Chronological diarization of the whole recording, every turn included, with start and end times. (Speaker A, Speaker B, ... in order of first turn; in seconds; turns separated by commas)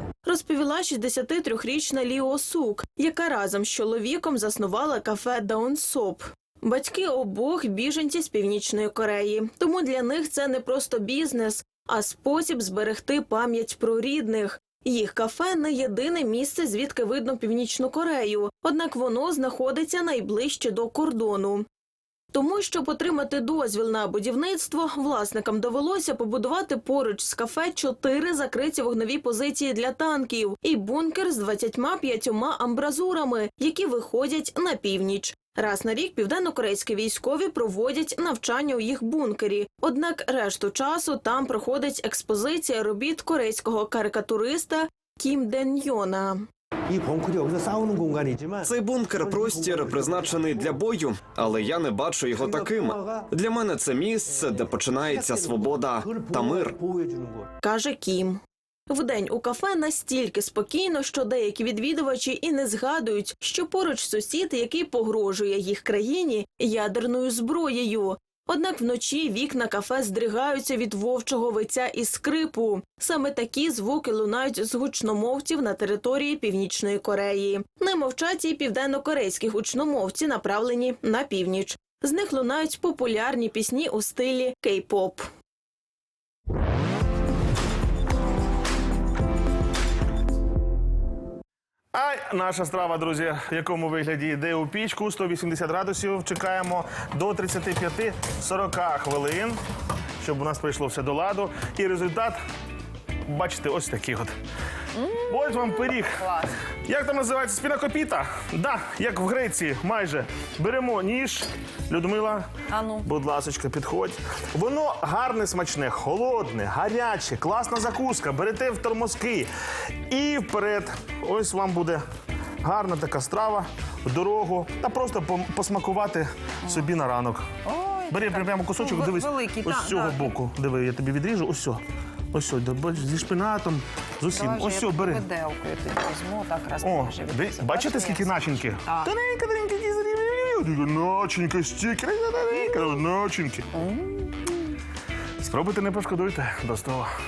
Speaker A: 0.2-21.6, Speaker A: 22.3-46.4, Speaker B: 46.9-50.8, Speaker C: 48.6-56.8, Speaker B: 52.4-53.3, Speaker B: 54.3-57.5, Speaker A: 57.6-85.3, Speaker D: 91.9-99.6, Speaker D: 100.2-102.4, Speaker D: 103.2-104.3, Speaker E: 104.9-106.5, Speaker D: 105.3-106.2, Speaker D: 106.8-112.5, Speaker E: 112.7-113.1, Speaker D: 113.0-119.5, Speaker D: 120.1-122.0, Speaker D: 122.6-127.5, Speaker E: 127.6-130.3, Speaker D: 128.1-131.8, Speaker D: 132.3-135.2, Speaker E: 134.3-139.1, Speaker D: 136.8-143.7, Speaker E: 143.7-144.5, Speaker D: 145.4-147.1